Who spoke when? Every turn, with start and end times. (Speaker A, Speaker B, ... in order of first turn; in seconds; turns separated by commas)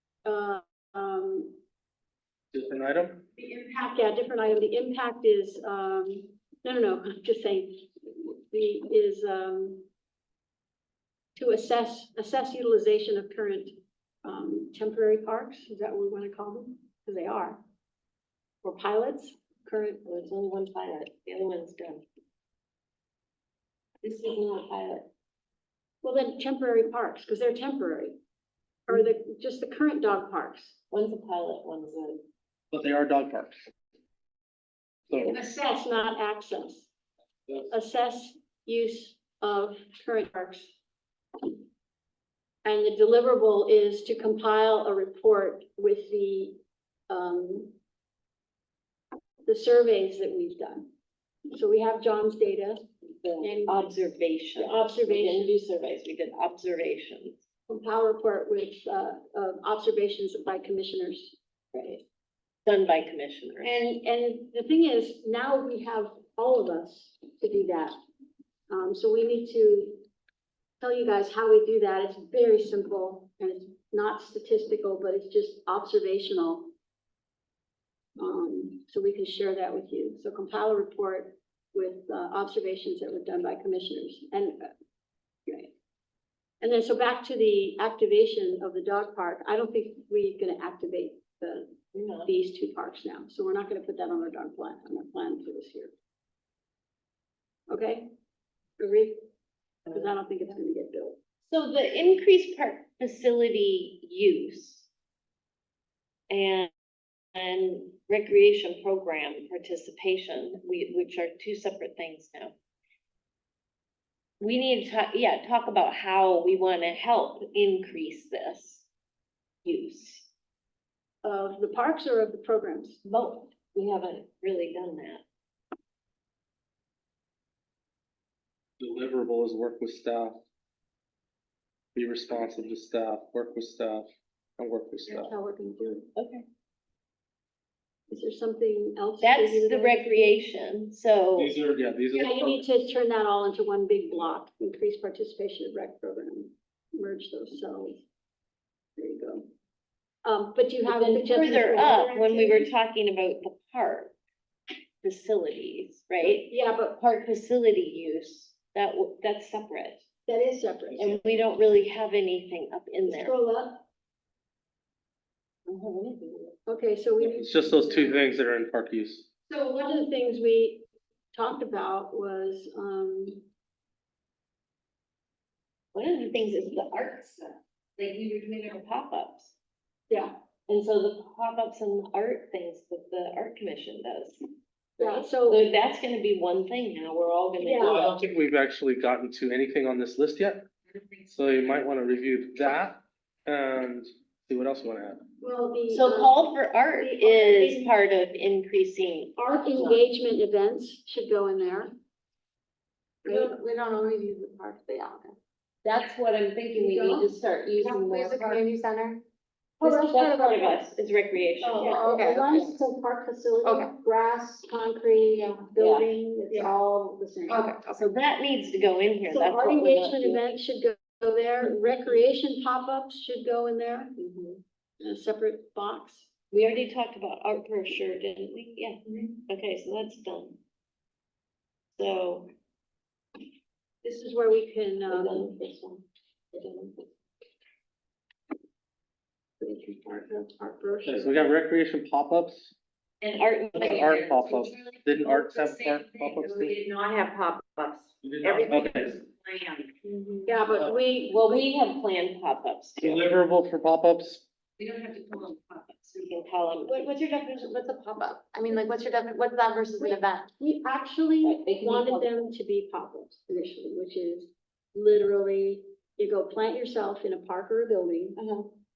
Speaker A: 0.2-1.6, Speaker B: 2.5-3.2, Speaker A: 3.4-9.8, Speaker A: 11.3-17.6, Speaker A: 18.6-20.0, Speaker C: 20.0-22.0, Speaker C: 24.0-25.1, Speaker A: 26.0-28.1, Speaker A: 28.9-30.8, Speaker C: 30.9-32.2, Speaker B: 32.7-33.6, Speaker B: 35.1-35.4, Speaker A: 35.2-36.9, Speaker A: 37.7-40.7, Speaker A: 42.6-46.6, Speaker A: 47.1-47.7, Speaker A: 49.4-50.9, Speaker A: 51.5-52.8, Speaker C: 53.2-57.4, Speaker A: 53.4-54.0, Speaker A: 54.5-55.6, Speaker A: 57.7-61.4, Speaker C: 61.7-62.0, Speaker C: 62.6-63.7, Speaker A: 63.6-67.9, Speaker A: 68.7-70.0, Speaker A: 70.8-76.7, Speaker A: 78.2-84.7, Speaker A: 85.5-85.7, Speaker A: 86.6-91.7, Speaker C: 91.9-92.3, Speaker A: 92.2-95.9, Speaker A: 97.7-98.1, Speaker A: 98.8-99.2, Speaker C: 99.9-100.1, Speaker A: 99.9-101.2, Speaker C: 101.5-104.9, Speaker C: 106.3-106.7, Speaker C: 107.3-112.5, Speaker C: 114.4-118.8, Speaker C: 119.6-120.3, Speaker A: 121.2-123.0, Speaker C: 123.0-125.2, Speaker B: 128.8-130.4, Speaker B: 131.9-135.3, Speaker A: 135.1-136.1, Speaker C: 136.2-136.4, Speaker A: 138.1-140.4, Speaker C: 139.2-141.5, Speaker B: 141.3-142.6, Speaker A: 142.1-148.0, Speaker A: 149.0-149.5, Speaker A: 150.2-152.7, Speaker C: 150.8-154.1, Speaker C: 155.0-160.0, Speaker A: 156.2-157.0, Speaker A: 160.2-161.1, Speaker C: 161.0-163.3, Speaker A: 163.1-163.8, Speaker C: 165.7-166.5, Speaker A: 166.7-168.3, Speaker B: 167.2-169.2, Speaker A: 169.5-173.4, Speaker C: 175.9-179.5, Speaker C: 180.7-184.4, Speaker A: 185.0-185.7, Speaker C: 185.0-188.2, Speaker A: 187.6-188.0, Speaker B: 187.8-190.7, Speaker B: 191.3-195.2, Speaker A: 195.4-197.9, Speaker C: 195.9-200.0, Speaker A: 199.3-201.9, Speaker A: 203.2-203.5, Speaker D: 203.2-205.4, Speaker C: 205.8-208.6, Speaker A: 206.8-207.3, Speaker D: 207.8-209.2, Speaker A: 209.8-210.8, Speaker C: 209.8-211.9, Speaker A: 211.6-217.7, Speaker D: 211.8-212.8, Speaker D: 213.6-213.9, Speaker C: 215.8-216.1, Speaker D: 217.5-218.1, Speaker C: 217.9-220.4, Speaker A: 219.3-224.1, Speaker C: 224.2-224.6, Speaker A: 225.0-226.3, Speaker C: 226.5-230.6, Speaker C: 232.0-232.5, Speaker A: 234.0-235.5, Speaker C: 235.1-237.0, Speaker A: 239.6-241.5, Speaker B: 241.1-242.7, Speaker C: 243.2-247.8, Speaker B: 243.7-246.7, Speaker B: 248.2-249.2, Speaker C: 248.5-249.2, Speaker D: 250.1-250.4, Speaker A: 250.4-251.6, Speaker C: 251.1-253.3, Speaker B: 253.0-254.4, Speaker C: 254.8-257.1, Speaker D: 256.8-260.5, Speaker A: 260.0-268.4, Speaker C: 261.4-262.3, Speaker D: 268.4-268.7